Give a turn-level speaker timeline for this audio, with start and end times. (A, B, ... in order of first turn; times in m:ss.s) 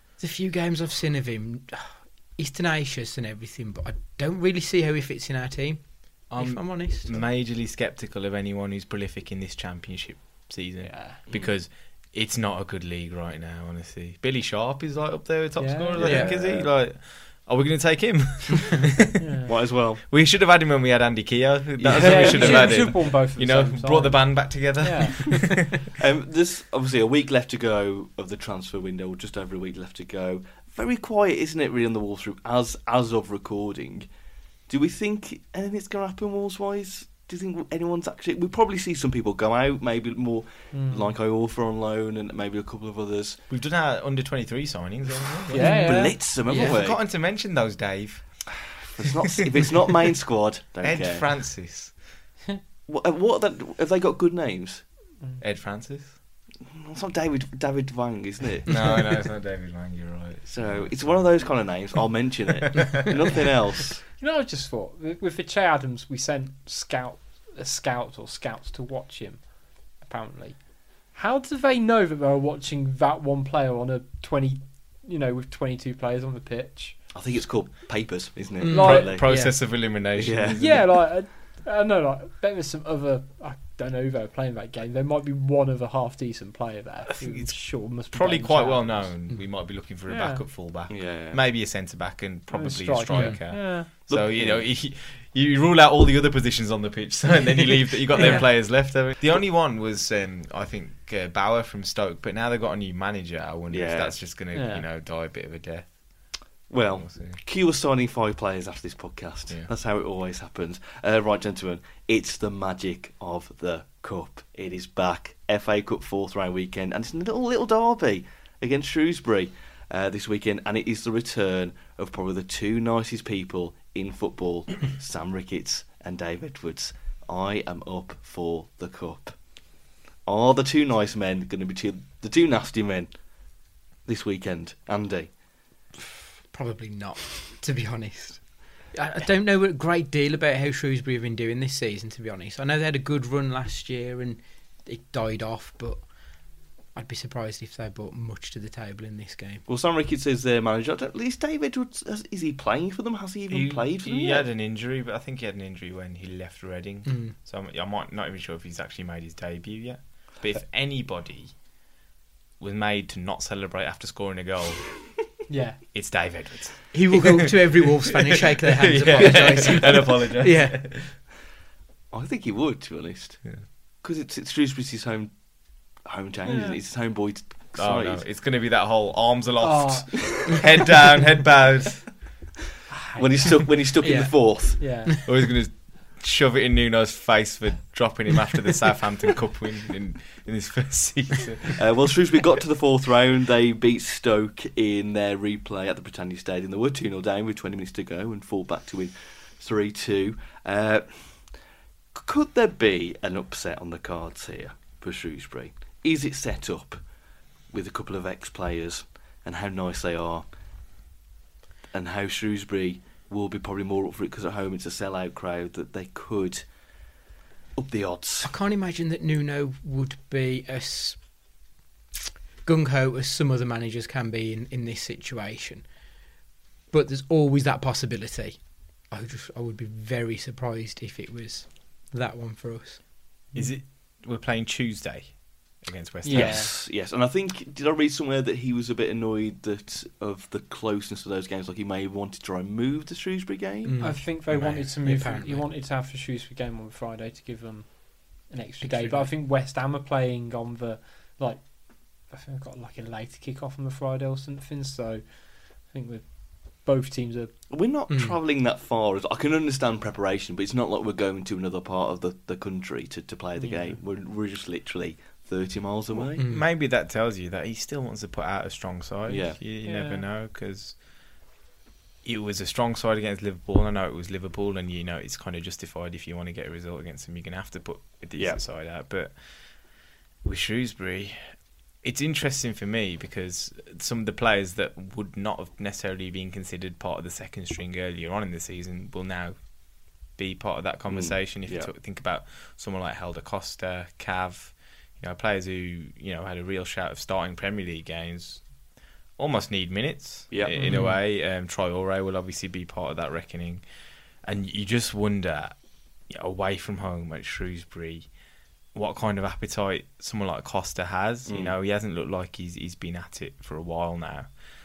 0:00.2-0:07.2 A
0:06.3-0:19.2 B
0:10.8-0:11.2 C
0:15.6-0:16.1 C
0:16.0-0:16.7 D
0:16.0-0:16.4 A
0:19.2-0:19.5 C
0:19.5-0:20.0 D
0:20.1-0:25.7 B
0:21.8-0:23.0 D
0:22.0-0:25.5 C
0:26.0-0:34.1 D
0:34.7-0:43.4 D
0:40.7-0:41.2 C
0:43.5-0:48.8 B
0:45.5-0:47.0 D
0:45.5-0:46.2 C
0:48.7-0:51.3 D
0:50.8-0:52.2 B
0:52.9-0:54.8 D
0:55.4-0:56.2 B
0:56.7-0:58.9 D
0:58.7-1:01.9 B
1:00.5-1:04.0 D
1:02.8-1:03.4 B
1:04.2-1:17.0 C
1:17.1-1:19.3 D
1:18.6-1:19.6 A
1:18.7-1:19.2 C
1:18.7-1:20.9 B
1:20.2-1:20.7 D
1:20.5-1:29.2 C
1:27.2-1:46.4 B
1:30.1-1:30.4 C
1:30.9-1:31.4 D
1:32.5-1:33.9 C
1:33.1-1:33.4 A
1:33.9-1:34.7 D
1:38.2-1:38.5 C
1:43.7-1:44.2 D
1:44.5-1:44.9 C
1:46.7-2:09.4 D
1:47.0-1:47.4 B
2:10.2-2:13.2 D
2:14.0-2:15.4 D
2:16.5-2:26.0 A
2:26.9-2:29.6 A
2:29.7-2:34.5 D
2:33.5-2:41.6 B
2:37.1-2:37.3 A
2:42.6-2:45.1 B
2:45.5-2:45.8 C
2:45.9-2:51.2 B
2:46.9-2:50.9 A
2:49.6-2:49.8 D
2:52.1-2:55.4 D
2:56.0-2:58.2 D
2:56.4-2:56.8 C
2:57.8-3:02.2 B
2:59.6-3:00.7 C
3:02.9-3:03.7 C
3:03.2-3:04.8 D
3:04.0-3:05.1 A
3:04.8-3:05.1 C
3:05.2-3:11.8 B
3:11.8-3:21.5 D
3:22.1-3:27.0 D
3:27.7-3:30.5 D
3:31.9-3:36.7 D
3:37.8-3:38.5 D
3:38.4-3:41.2 A
3:42.6-3:45.9 A
3:46.9-3:53.0 A
3:53.5-3:56.7 B
3:56.2-3:56.7 C
3:56.3-4:04.0 D
4:03.8-4:05.7 A
4:04.0-4:17.5 C
4:04.5-4:04.9 B
4:08.8-4:09.3 A
4:17.7-4:26.4 D
4:18.1-4:18.4 A
4:23.6-4:24.0 C
4:26.4-4:26.7 A
4:26.4-4:31.0 B
4:29.3-4:29.6 D
4:29.8-4:30.2 C
4:32.2-4:39.9 B
4:40.4-4:49.6 B
4:50.4-4:58.7 B
4:51.1-4:51.9 D
4:59.4-5:03.8 B
5:00.5-5:00.8 D
5:00.8-5:01.0 C
5:00.8-5:01.2 A
5:04.4-5:05.8 B
5:06.3-5:08.3 B
5:08.9-5:14.5 B
5:11.5-5:11.7 D